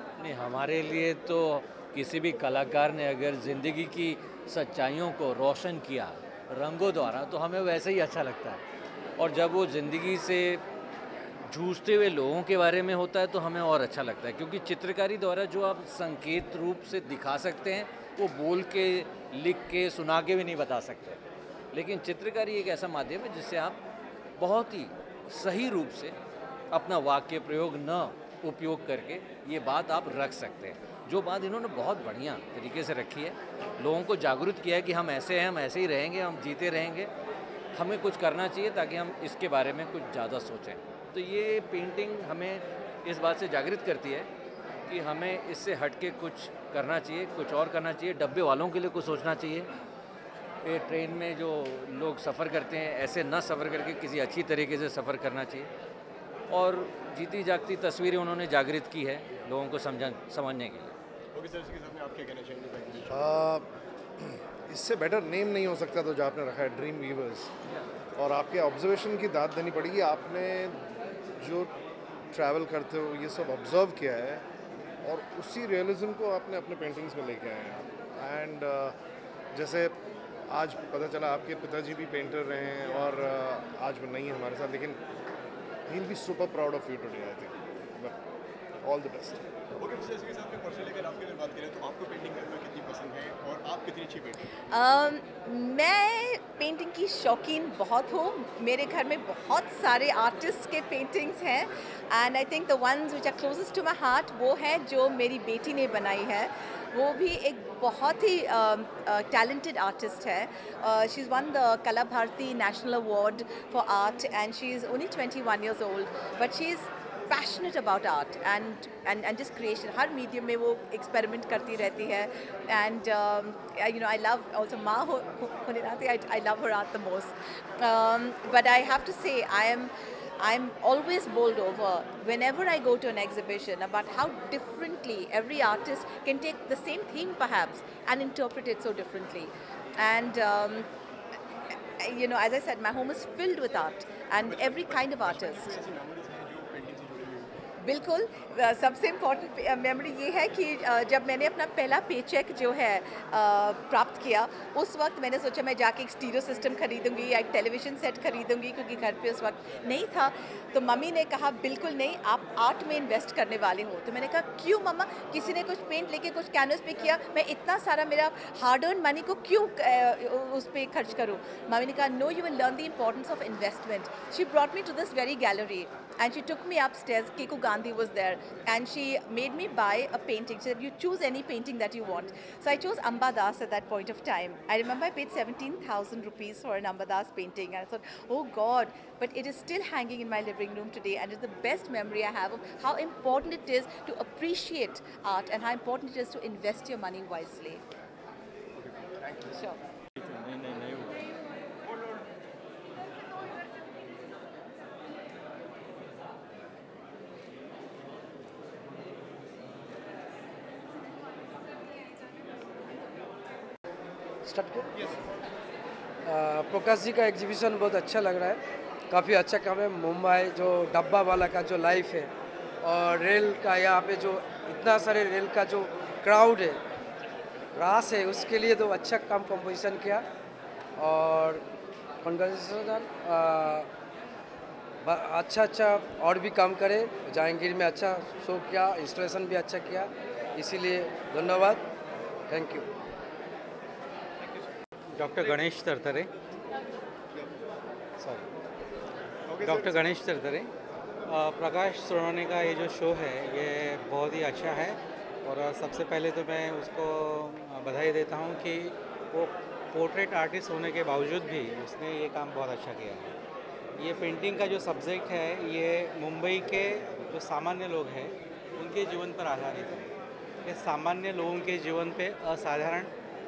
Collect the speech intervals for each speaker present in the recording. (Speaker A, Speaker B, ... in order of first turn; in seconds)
Speaker A: 0.2-8.6, 9.2-10.6, 11.5-21.2, 21.7-23.8, 24.4-26.1, 26.7-37.1, 37.7-44.3, 44.9-49.7, 50.6-55.7, 56.5-60.9
Speaker B: 61.3-63.3, 89.8-94.4, 144.4-147.5, 198.8-199.6, 249.5-250.1
Speaker C: 63.1-63.7, 64.2-67.5, 68.2-70.8, 71.4-71.7, 72.3-74.4, 75.0-79.0, 79.5-79.9, 80.5-85.0, 85.9-88.1, 88.8-89.4
Speaker D: 94.7-140.9, 142.0-145.8, 147.8-197.8, 199.5-199.8
Speaker E: 214.4-214.9, 216.2-226.8, 227.7-230.2, 231.0-231.6, 232.2-233.9, 235.0-241.8, 242.5-242.9
Speaker F: 245.2-246.3, 248.2-248.4, 249.6-250.7, 251.2-263.3, 264.0-270.1, 270.6-273.1